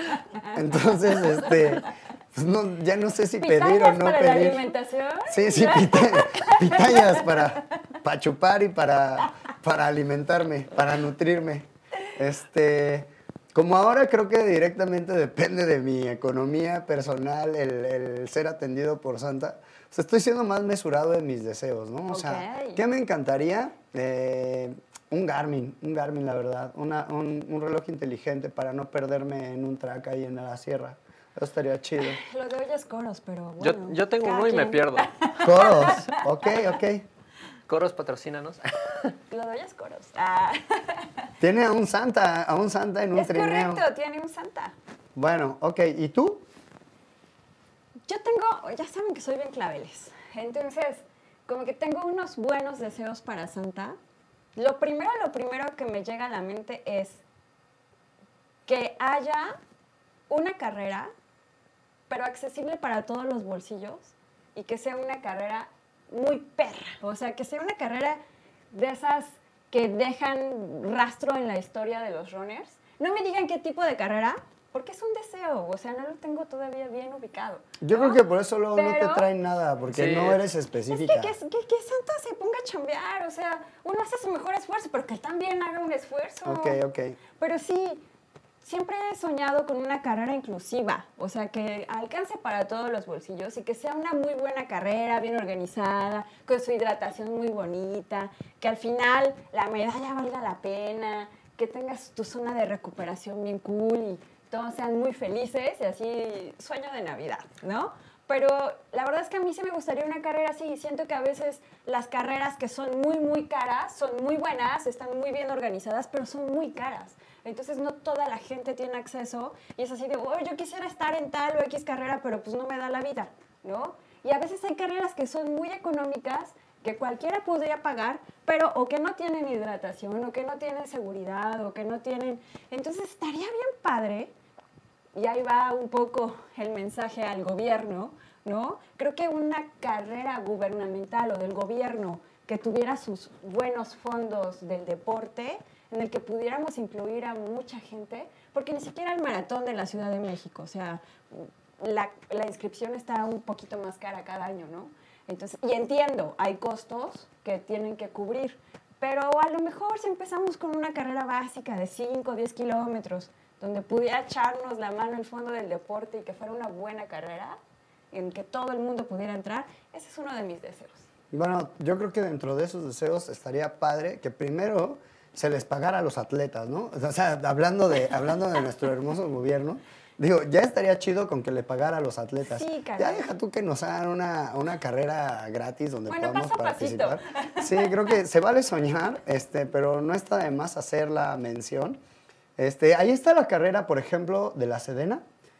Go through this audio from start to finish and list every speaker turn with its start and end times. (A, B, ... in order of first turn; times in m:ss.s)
0:00.5-0:04.7 A
0:03.4-0:07.4 B
0:05.3-0:32.2 A
0:22.1-0:22.8 B
0:32.0-0:36.2 B
0:33.6-0:35.1 C
0:35.4-0:37.0 A
0:37.7-0:39.1 C
0:39.3-0:41.3 B
0:41.4-0:43.8 A
0:43.1-0:44.8 B
0:45.1-0:46.4 A
0:48.1-0:54.0 B
0:54.6-0:57.2 B
0:58.6-0:59.6 B
1:00.3-1:01.1 B
1:02.1-1:08.2 B
1:08.7-1:18.2 B
1:17.8-1:21.3 A
1:18.7-1:19.3 B
1:19.9-1:20.4 C
1:20.9-1:26.8 B
1:26.4-1:27.2 A
1:27.4-1:28.0 B
1:28.6-2:14.3 B
2:15.2-2:47.6 B
2:48.1-2:51.1 B
2:51.3-3:12.0 A
3:02.4-3:03.3 B
3:06.1-3:08.1 B
3:12.6-3:15.2 A